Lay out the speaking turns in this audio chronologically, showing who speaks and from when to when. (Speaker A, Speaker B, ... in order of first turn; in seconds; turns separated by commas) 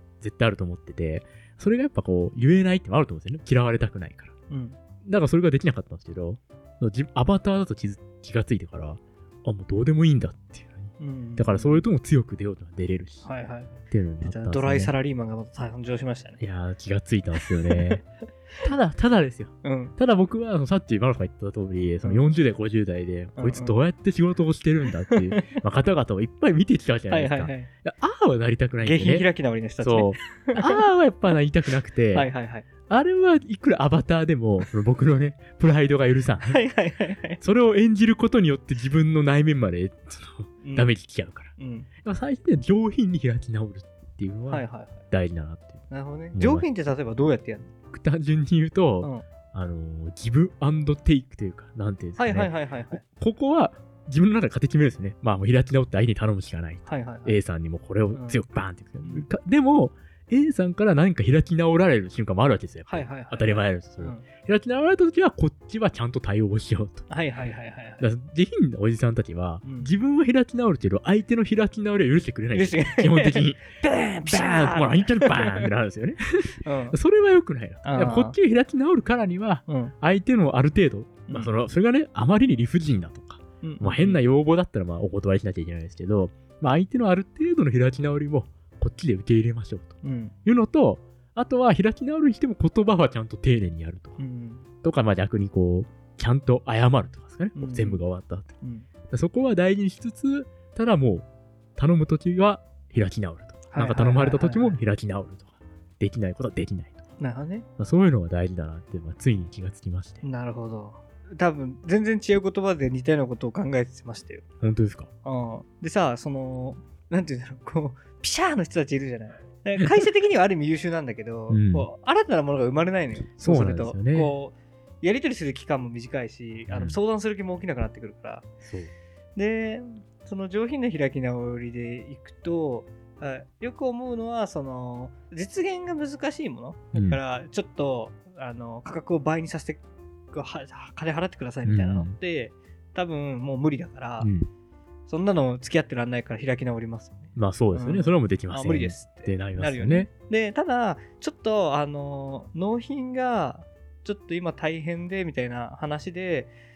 Speaker A: 0.2-4.3, Speaker B: 4.5-4.8, Speaker A: 5.1-13.3, Speaker B: 11.0-11.8, Speaker B: 13.2-16.4, Speaker A: 13.9-14.9, Speaker A: 16.4-18.0, Speaker B: 17.8-18.0, Speaker A: 18.6-29.3, Speaker B: 19.6-19.9, Speaker B: 23.4-23.8, Speaker B: 25.2-25.6, Speaker B: 27.1-27.7, Speaker B: 28.8-30.8, Speaker A: 29.8-32.3, Speaker B: 32.1-32.7, Speaker A: 32.9-36.6, Speaker B: 36.5-37.4, Speaker A: 37.4-41.5, Speaker B: 40.6-40.9, Speaker B: 41.6-41.9, Speaker A: 42.0-46.7, Speaker B: 44.5-45.0, Speaker B: 45.9-47.7, Speaker A: 47.9-67.1, Speaker B: 52.2-53.0, Speaker B: 56.9-57.4, Speaker B: 58.1-58.4, Speaker B: 62.9-64.2, Speaker B: 67.1-68.0, Speaker A: 68.0-73.7, Speaker B: 69.6-69.9, Speaker B: 72.5-75.7, Speaker A: 74.2-89.9, Speaker B: 76.6-77.0, Speaker B: 77.8-78.4, Speaker B: 79.7-79.9, Speaker B: 83.6-84.2, Speaker B: 90.0-90.3, Speaker A: 90.5-94.2, Speaker B: 94.2-94.7, Speaker A: 94.8-98.5, Speaker B: 97.5-98.0, Speaker B: 98.6-98.9, Speaker A: 99.1-107.0, Speaker B: 103.7-104.8, Speaker B: 107.2-107.7, Speaker A: 107.8-110.2, Speaker B: 110.2-114.4, Speaker A: 114.6-115.1, Speaker B: 115.2-128.5, Speaker A: 121.5-121.9, Speaker A: 123.4-124.3, Speaker A: 126.7-127.0, Speaker A: 128.6-128.9, Speaker B: 129.4-144.3, Speaker A: 136.9-137.2, Speaker A: 141.7-142.2, Speaker A: 144.2-144.5, Speaker B: 145.1-156.5, Speaker A: 147.3-150.1